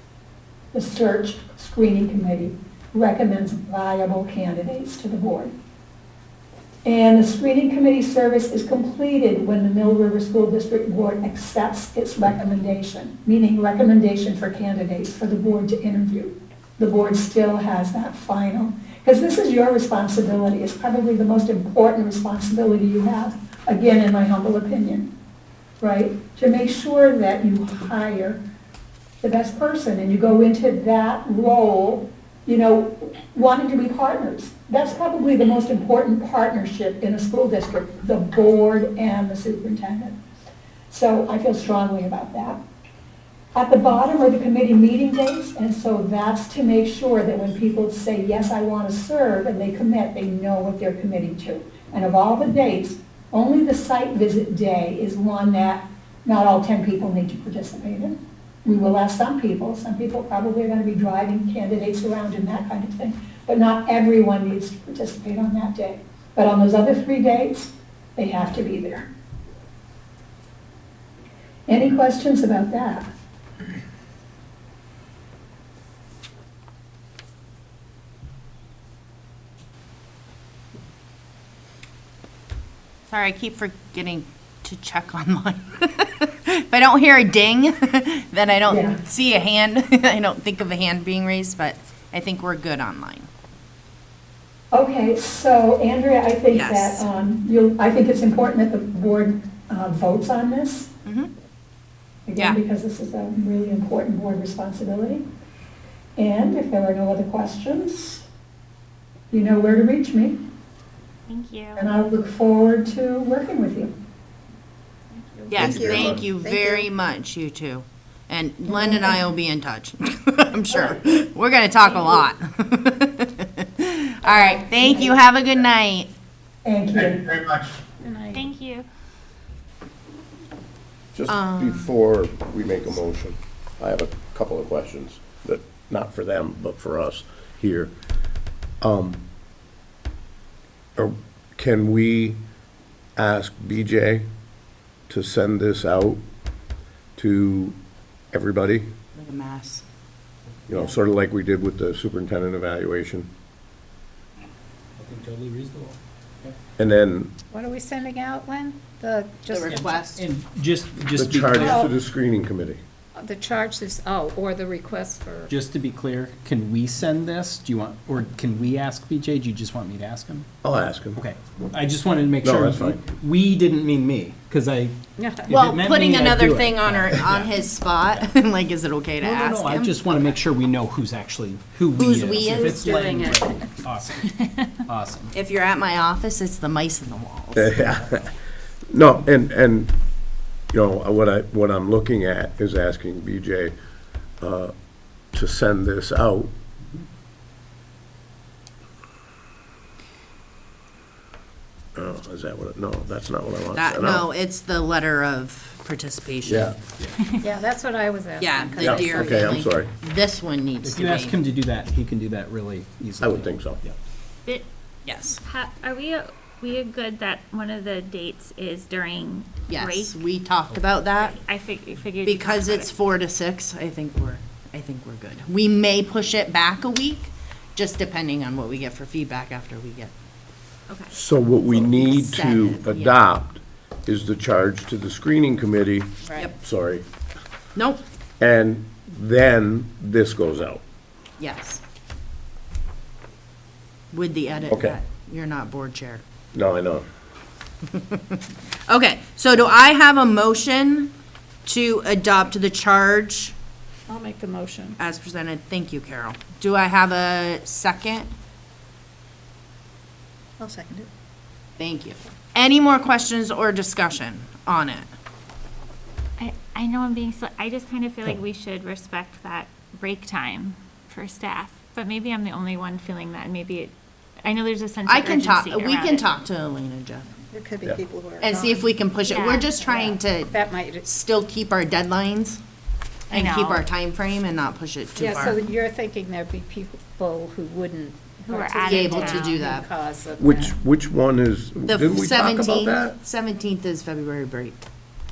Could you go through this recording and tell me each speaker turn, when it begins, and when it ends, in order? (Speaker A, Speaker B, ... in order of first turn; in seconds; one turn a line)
Speaker A: 0.7-5.5
Speaker A: 6.8-25.1
Speaker A: 25.8-28.4
Speaker A: 29.2-40.2
Speaker A: 40.9-42.6
Speaker A: 43.5-69.1
Speaker A: 71.7-73.1
Speaker B: 83.1-93.3
Speaker A: 88.7-89.0
Speaker A: 94.7-100.9
Speaker B: 96.5-97.0
Speaker B: 101.0-101.3
Speaker A: 102.2-105.2
Speaker A: 106.2-108.2
Speaker A: 109.3-110.4
Speaker C: 111.3-111.9
Speaker A: 111.8-113.9
Speaker D: 115.2-116.9
Speaker B: 115.5-126.1
Speaker E: 115.5-116.2
Speaker A: 118.7-119.2
Speaker A: 124.8-125.1
Speaker A: 126.6-127.3
Speaker D: 128.0-128.5
Speaker C: 128.3-128.9
Speaker E: 131.1-137.9
Speaker B: 131.3-131.9
Speaker E: 138.8-139.2
Speaker E: 140.9-142.4
Speaker E: 143.2-144.3
Speaker E: 145.1-146.2
Speaker E: 147.2-147.8
Speaker E: 148.3-148.9
Speaker B: 149.1-149.8
Speaker E: 150.7-153.3
Speaker F: 155.0-156.6
Speaker E: 156.8-157.3
Speaker D: 157.5-160.1
Speaker B: 159.5-160.2
Speaker F: 159.7-161.8
Speaker E: 161.1-162.8
Speaker D: 161.6-161.9
Speaker D: 163.2-165.5
Speaker F: 165.5-170.5
Speaker E: 170.6-171.2
Speaker F: 171.1-177.5
Speaker E: 172.4-173.0
Speaker D: 175.2-175.5
Speaker B: 175.5-180.0
Speaker F: 179.2-185.3
Speaker B: 181.9-182.8
Speaker D: 182.5-183.7
Speaker B: 185.3-187.7
Speaker E: 187.6-188.3
Speaker E: 188.9-189.9
Speaker E: 190.7-193.7
Speaker E: 194.4-194.7
Speaker E: 195.3-196.5
Speaker E: 201.9-204.3
Speaker B: 203.7-206.8
Speaker E: 206.4-206.8
Speaker D: 207.4-209.6
Speaker B: 208.4-211.3
Speaker E: 208.8-209.9
Speaker F: 210.8-213.9
Speaker E: 213.2-213.8
Speaker B: 215.1-215.4
Speaker C: 215.3-220.2
Speaker B: 219.7-221.4
Speaker C: 221.2-222.9
Speaker B: 222.2-230.1
Speaker C: 230.9-231.1
Speaker E: 231.1-237.0
Speaker B: 231.7-233.2
Speaker D: 236.2-236.5
Speaker B: 237.7-238.0
Speaker E: 238.4-240.8
Speaker B: 241.4-241.8
Speaker B: 244.1-246.2
Speaker E: 244.7-245.0
Speaker E: 246.5-247.0
Speaker B: 247.9-251.1
Speaker B: 251.7-253.5
Speaker D: 254.1-255.0
Speaker B: 255.0-258.3
Speaker D: 260.6-261.1
Speaker B: 261.8-265.1
Speaker C: 266.4-276.2
Speaker B: 275.1-277.3
Speaker D: 277.5-279.1
Speaker B: 278.4-282.6
Speaker C: 279.2-279.7
Speaker D: 279.6-281.0
Speaker C: 283.3-283.9
Speaker B: 283.3-285.6
Speaker D: 285.1-290.7
Speaker C: 288.5-289.6
Speaker B: 288.8-289.9
Speaker E: 290.4-293.1
Speaker B: 291.9-294.8